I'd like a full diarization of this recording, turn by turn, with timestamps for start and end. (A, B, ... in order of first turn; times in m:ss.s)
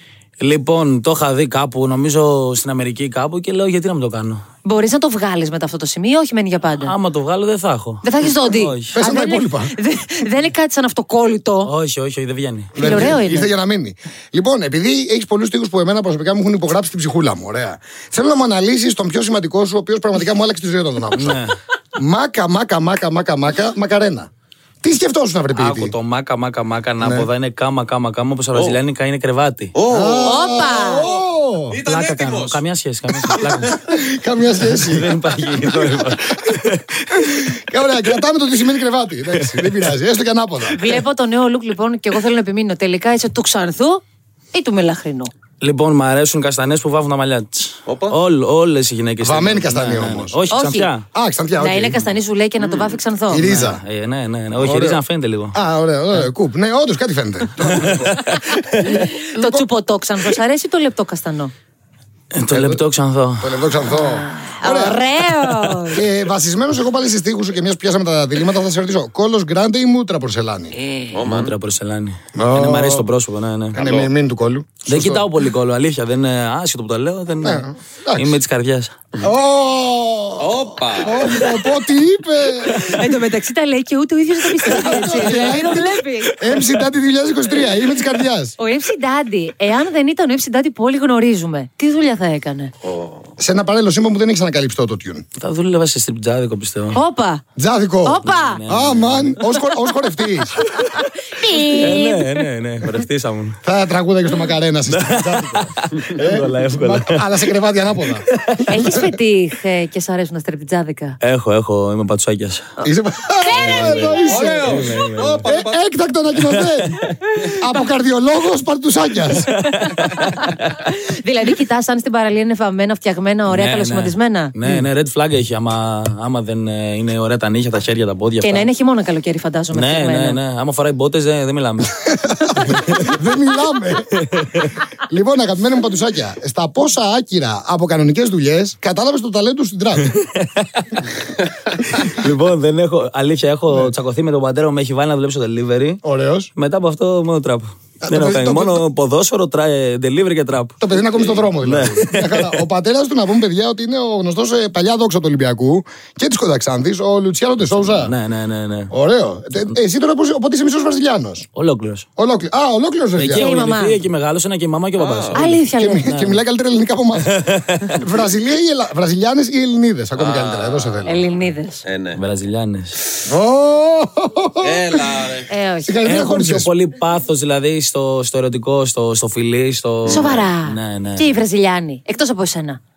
0:00.4-0:04.4 A
0:04.6-0:06.9 B
0:06.8-0:08.9 A
0:08.0-0:11.7 B
0:08.9-0:09.7 C
0:11.6-0:13.1 A
0:12.7-0:21.4 C
0:12.8-0:13.5 B
0:21.1-0:21.5 A
0:22.0-0:24.3 C
0:24.8-0:25.9 C
0:25.5-0:29.8 A
0:27.0-0:27.3 C
0:28.5-0:28.8 D
0:29.7-0:31.2 D
0:29.9-0:31.8 C
0:30.2-0:31.1 B
0:31.7-0:32.6 D
0:31.8-0:33.8 A
0:33.2-0:35.2 C
0:34.6-0:37.5 A
0:37.5-0:40.9 C
0:39.3-0:39.9 A
0:40.7-0:44.0 B
0:44.5-0:45.3 B
0:45.6-0:51.0 A
0:47.8-0:48.2 D
0:49.2-0:50.4 C
0:50.5-0:50.9 B
0:51.1-0:52.0 C
0:51.6-0:53.5 B
0:52.6-0:52.9 D
0:53.3-0:53.8 C
0:53.3-0:55.6 A
0:54.6-0:55.0 C
0:55.5-0:59.6 C
0:57.6-0:59.1 A
0:58.8-1:01.5 B
1:02.3-1:03.6 A
1:02.5-1:02.8 C
1:03.4-1:05.0 C
1:03.9-1:06.0 B
1:05.3-1:05.9 A
1:05.9-1:10.7 C
1:11.1-1:11.5 D
1:11.2-1:13.8 A
1:12.4-1:13.1 C
1:13.7-1:15.2 C
1:13.8-1:14.1 D
1:14.8-1:18.9 A
1:17.4-1:18.4 C
1:19.2-1:22.9 C
1:20.4-1:21.2 D
1:21.2-1:21.7 A
1:22.6-1:23.0 A
1:22.8-1:26.4 B
1:24.6-1:26.8 A
1:24.6-1:28.5 C
1:28.6-1:32.7 B
1:32.8-1:33.3 D
1:33.4-1:35.2 C
1:35.4-1:37.0 A
1:36.9-1:37.4 B
1:37.6-1:40.7 C
1:38.0-1:38.6 B
1:38.2-1:39.6 A
1:40.7-1:42.4 B
1:41.5-1:42.0 C
1:41.7-1:43.6 A
1:43.6-1:49.1 C
1:44.9-1:47.3 A
1:48.3-1:48.6 A
1:48.7-1:51.2 B
1:51.2-1:52.7 A
1:52.8-1:54.9 C
1:53.4-1:54.6 B
1:53.5-1:55.5 A
1:53.9-1:55.8 D
1:55.4-1:59.8 C
1:56.4-1:57.2 A
1:59.3-2:00.6 A
2:00.0-2:04.5 B
2:03.5-2:08.7 A
2:08.4-2:10.4 B
2:09.7-2:12.0 A
2:12.0-2:14.3 C
2:12.7-2:13.2 A
2:14.2-2:14.7 A
2:15.0-2:20.2 C
2:20.0-2:21.0 A
2:21.9-2:26.0 A
2:26.0-2:26.5 C
2:26.6-2:32.6 A
2:28.0-2:28.8 C
2:30.8-2:38.1 C
2:37.7-2:38.9 A
2:38.9-2:41.5 C
2:41.5-2:42.1 A
2:42.2-2:43.5 C
2:43.2-2:46.4 A
2:43.3-2:44.0 B
2:45.0-2:45.4 D
2:45.3-2:46.1 B
2:45.8-2:51.2 C
2:47.2-2:48.0 A
2:50.2-2:51.0 D
2:51.0-2:51.8 B
2:51.8-2:52.2 D
2:52.2-2:53.0 A
2:53.2-2:55.0 C
2:54.6-2:55.5 D
2:55.5-2:55.9 B
2:55.8-2:56.7 C
2:56.0-3:01.4 A
3:00.0-3:02.8 B